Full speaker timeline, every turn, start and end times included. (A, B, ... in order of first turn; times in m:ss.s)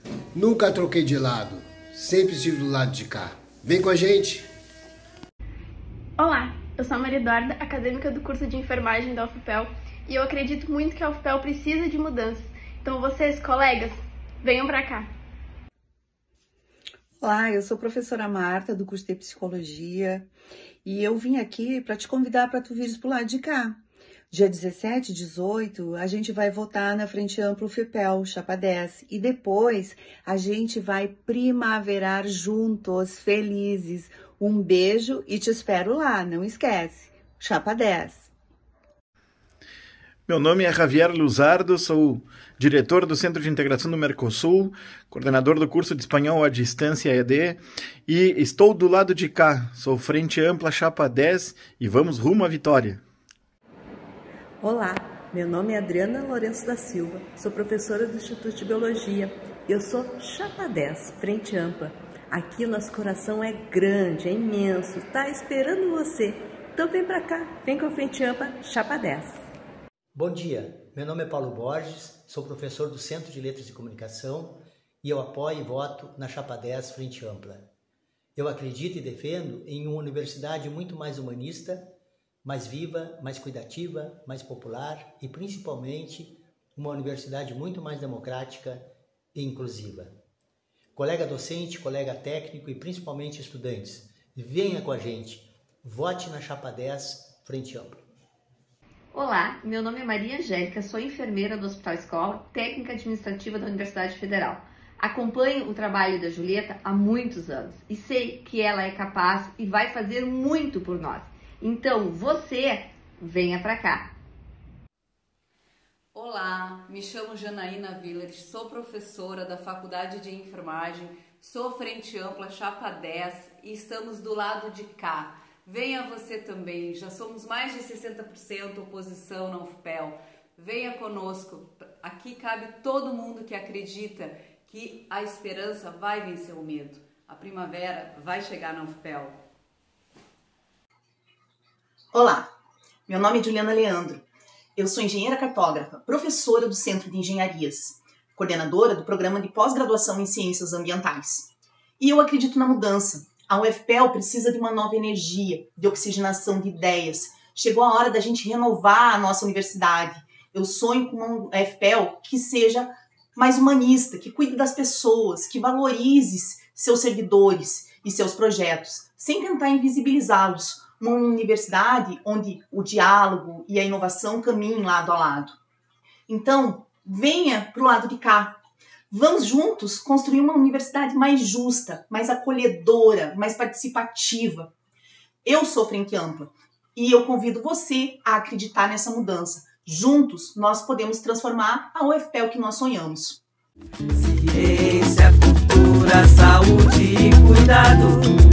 0:00.3-0:04.5 A
0:06.2-0:15.1 B
0:17.2-0:20.3 C
0:20.8-0:23.8 C
0:24.3-0:38.3 C
0:40.3-0:53.0 D
0:54.6-1:09.4 E
1:10.2-1:17.7 F
1:18.4-1:21.9 F
1:22.4-1:30.1 F
1:31.0-1:38.0 F
1:39.1-1:54.1 G
1:56.2-2:19.3 H
2:22.1-2:22.5 I
2:23.1-2:24.2 I
2:24.8-2:55.6 I
2:56.3-2:58.6 I
2:59.1-3:04.7 I
3:05.4-3:13.4 I
3:14.2-3:18.3 J